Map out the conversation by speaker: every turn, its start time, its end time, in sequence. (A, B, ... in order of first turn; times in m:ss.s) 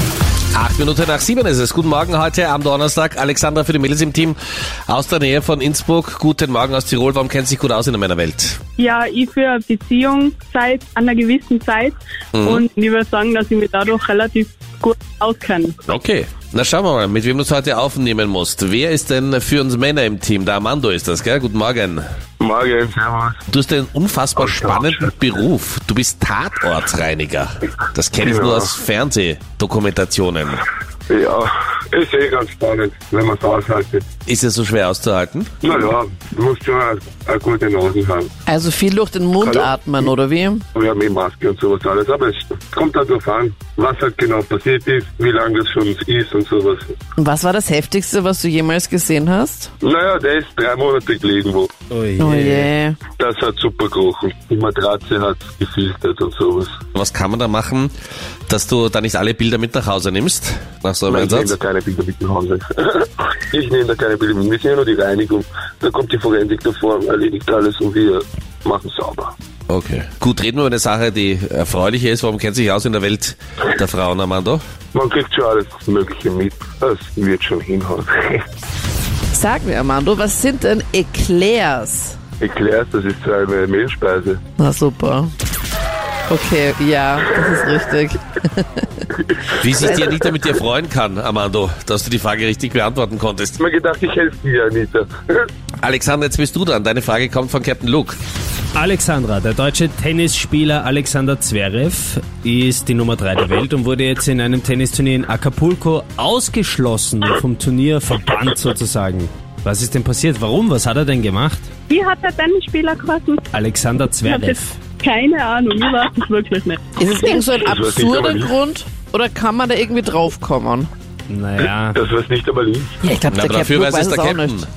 0:00.5-0:08.6 A
0:08.8-0:15.8 B
0:12.3-0:12.6 A
0:15.8-0:22.0 A
0:22.4-0:23.4 C
0:23.5-0:30.6 A
0:24.4-0:25.1 C
0:28.2-0:28.7 C
0:31.1-0:34.0 C
0:34.2-0:35.5 A
0:35.6-0:38.3 C
0:38.4-0:40.6 D
0:39.4-0:40.1 C
0:40.7-0:46.9 C
0:47.2-0:49.7 D
0:49.8-0:51.7 C
0:51.9-0:52.7 E
0:52.2-0:53.0 D
0:53.2-0:56.7 C
0:56.9-0:57.9 A
0:58.5-1:01.5 A
1:01.0-1:09.3 C
1:09.7-1:14.6 A
1:14.9-1:18.4 C
1:19.3-1:22.2 D
1:22.4-1:24.4 C
1:24.6-1:25.3 D
1:26.3-1:28.8 D
1:29.4-1:30.2 C
1:29.6-1:33.6 A
1:29.7-1:30.4 D
1:33.6-1:35.4 C
1:35.8-1:38.2 A
1:38.7-1:51.7 E
1:51.9-1:53.5 B
1:53.5-1:54.8 E
1:54.2-1:56.8 B
1:57.0-2:00.9 D
1:57.6-1:58.5 C
2:01.3-2:02.0 E
2:01.9-2:03.0 C
2:03.0-2:04.6 D
2:03.3-2:04.7 A